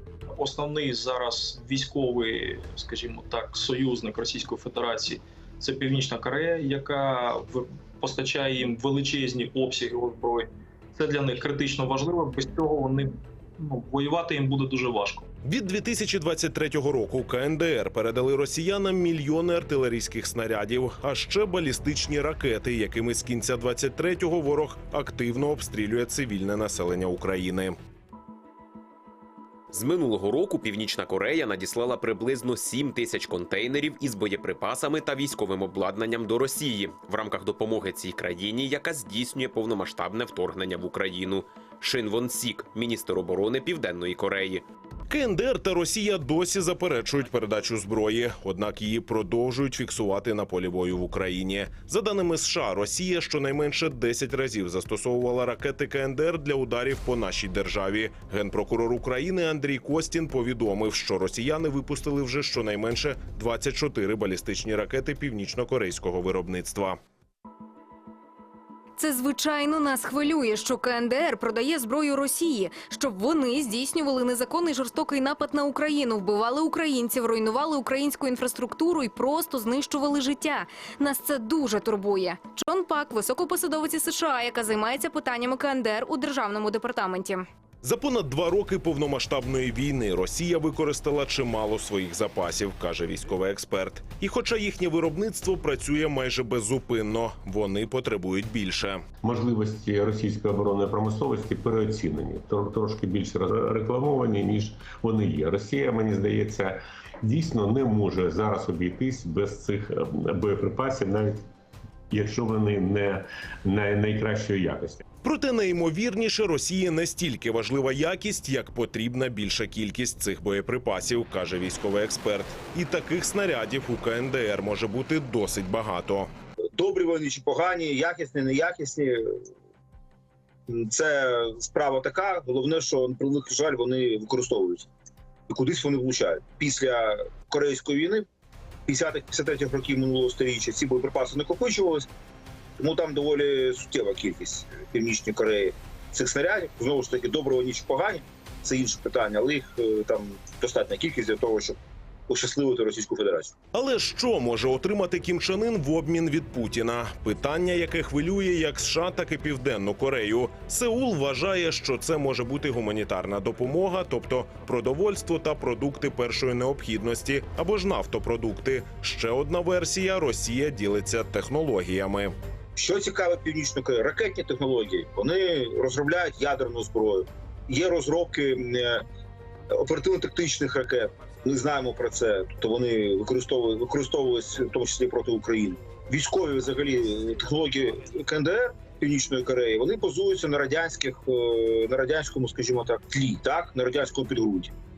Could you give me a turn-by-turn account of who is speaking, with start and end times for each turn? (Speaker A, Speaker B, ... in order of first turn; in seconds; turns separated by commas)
Speaker A: 0.4-15.3, Speaker B: 15.4-27.8, Speaker C: 29.7-44.6, Speaker B: 45.1-67.0, Speaker D: 69.0-87.5, Speaker B: 87.8-99.0, Speaker E: 99.2-111.4, Speaker E: 112.1-115.0, Speaker B: 115.2-126.3, Speaker F: 126.8-129.4, Speaker F: 130.7-134.9, Speaker F: 135.5-138.2, Speaker F: 138.9-142.1, Speaker F: 142.8-153.5, Speaker B: 153.7-172.3, Speaker F: 172.8-179.1, Speaker F: 179.7-194.7